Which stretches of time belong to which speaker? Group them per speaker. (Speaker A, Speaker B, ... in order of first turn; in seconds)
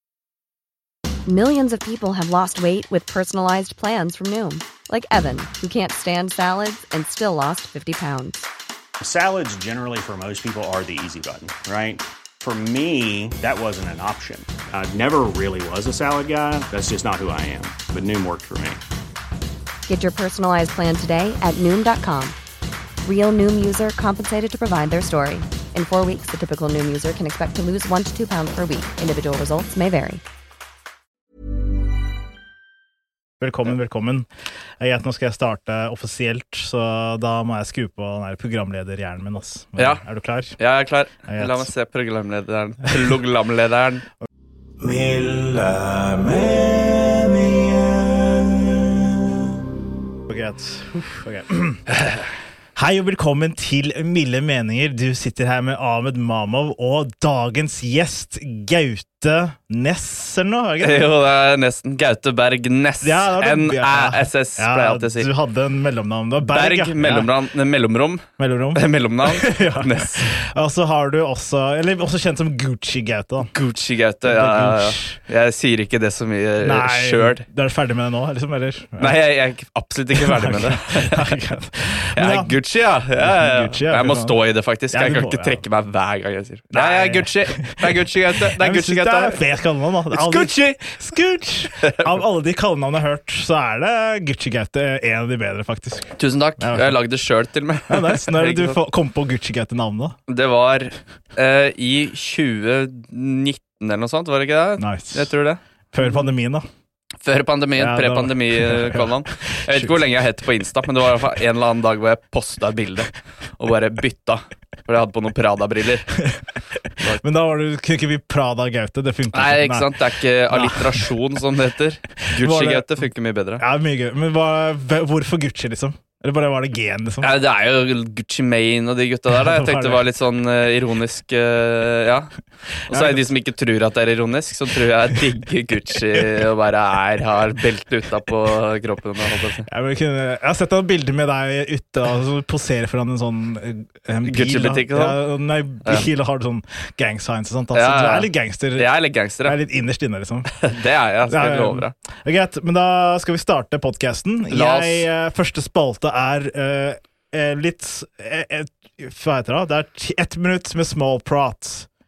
Speaker A: 1.2-8.4, 19.9-22.4, 23.0-30.2
Speaker B: 9.0-18.8
Speaker C: 33.4-34.3, 34.8-40.6, 41.3-41.7, 44.8-49.0, 50.3-51.9, 52.7-61.1, 63.0-67.3, 68.4-73.5, 74.2-75.2, 76.6-79.2, 80.1-82.5, 83.2-84.4, 84.9-85.6, 86.7-97.0, 97.9-100.2, 104.8-105.3, 105.9-106.6, 107.8-110.0, 117.2-121.1, 122.3-123.1, 123.6-127.3, 129.3-130.0, 132.9-133.3, 139.7-150.7, 151.3-161.9
Speaker D: 39.8-40.0, 40.6-44.0, 60.8-65.3, 66.4-70.3, 73.4-77.4, 79.0-81.4, 82.1-89.4, 90.1-90.8, 91.8-92.1, 96.2-98.8, 100.3-106.2, 107.2-116.2, 119.3-123.6, 127.2-132.3, 132.9-139.7, 144.2-145.2, 147.7-149.6, 150.6-151.9, 154.5-155.1